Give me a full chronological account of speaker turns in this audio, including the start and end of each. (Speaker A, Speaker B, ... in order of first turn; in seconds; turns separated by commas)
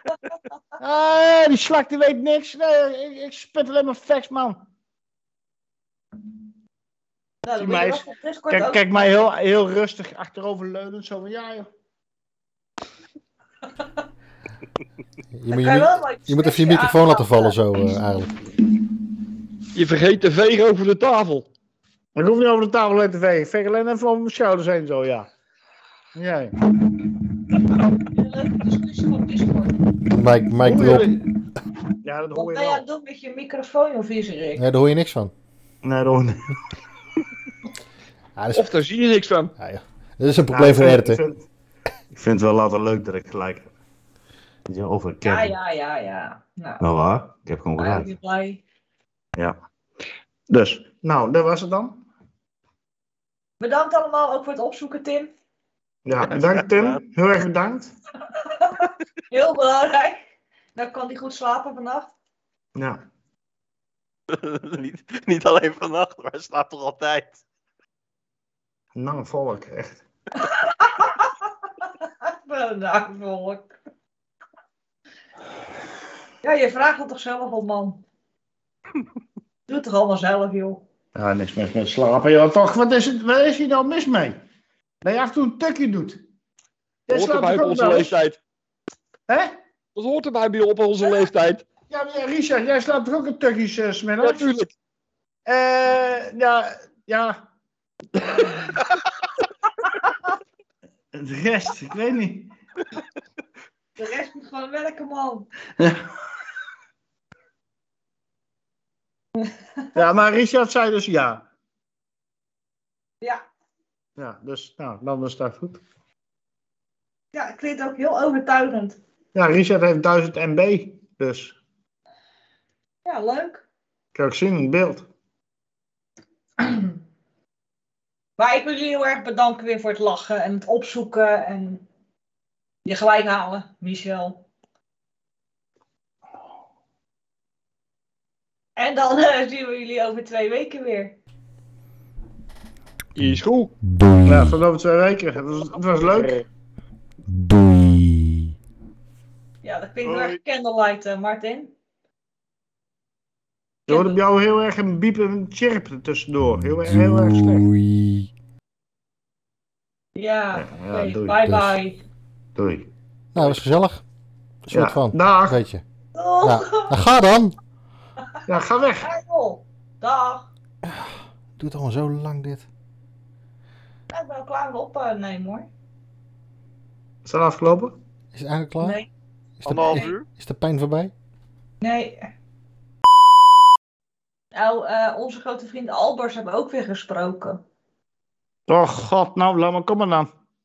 Speaker A: 0.8-4.6, Speaker B: 7.4-8.8, Speaker A: 7.6-11.7, Speaker C: 15.3-18.3, Speaker B: 15.5-17.6, Speaker D: 19.7-21.5, Speaker A: 22.2-25.3, Speaker A: 26.1-26.6, Speaker B: 28.0-29.8, Speaker C: 30.1-31.2, Speaker A: 30.6-31.2, Speaker A: 32.0-32.8, Speaker B: 32.3-34.6, Speaker C: 34.6-35.3, Speaker A: 35.8-36.5, Speaker C: 38.4-38.7, Speaker D: 38.5-39.5, Speaker C: 39.6-41.2, Speaker A: 40.5-41.4, Speaker A: 42.1-43.7, Speaker A: 44.7-45.5, Speaker B: 45.2-46.8, Speaker A: 46.8-48.1, Speaker B: 47.8-48.6, Speaker A: 50.5-52.0, Speaker B: 53.6-55.3, Speaker A: 56.1-57.9, Speaker E: 56.3-57.0, Speaker B: 58.6-60.2, Speaker B: 60.8-62.1, Speaker E: 64.3-67.4, Speaker A: 69.0-70.0, Speaker B: 70.4-71.3, Speaker B: 71.8-73.7, Speaker B: 76.4-78.0, Speaker B: 79.7-80.8, Speaker A: 81.2-84.4, Speaker A: 85.0-86.2, Speaker A: 87.1-88.1, Speaker D: 87.1-88.4, Speaker A: 89.3-89.5, Speaker D: 90.0-91.7, Speaker A: 91.9-94.5, Speaker D: 94.2-94.7, Speaker A: 95.5-97.4, Speaker A: 101.1-102.5, Speaker B: 104.0-105.5, Speaker B: 109.4-110.0, Speaker A: 110.0-111.5, Speaker A: 114.2-115.8, Speaker B: 117.3-119.0, Speaker A: 119.3-121.6, Speaker B: 123.0-123.7, Speaker A: 124.2-125.0, Speaker B: 126.6-127.0, Speaker B: 128.4-131.8, Speaker B: 132.8-134.4, Speaker B: 138.8-141.2, Speaker D: 143.2-143.7, Speaker C: 143.2-144.6, Speaker A: 144.2-146.4, Speaker C: 147.3-148.5, Speaker B: 149.6-151.7, Speaker E: 150.0-150.4, Speaker A: 153.9-157.7, Speaker B: 153.9-154.2, Speaker C: 156.4-158.3, Speaker B: 160.2-162.0, Speaker A: 160.5-161.4, Speaker C: 161.5-161.7, Speaker A: 162.6-162.9, Speaker C: 163.3-164.0, Speaker C: 164.7-165.8, Speaker A: 164.7-165.6, Speaker B: 166.2-166.9, Speaker C: 166.4-167.6, Speaker A: 168.5-169.1, Speaker B: 169.0-170.5, Speaker C: 170.8-172.7, Speaker B: 174.1-175.7, Speaker A: 177.2-177.9, Speaker C: 178.3-179.0, Speaker B: 178.8-179.1, Speaker C: 179.6-181.1, Speaker E: 179.7-180.3, Speaker B: 179.8-180.1, Speaker B: 181.8-182.3, Speaker B: 184.5-187.6, Speaker A: 188.7-190.3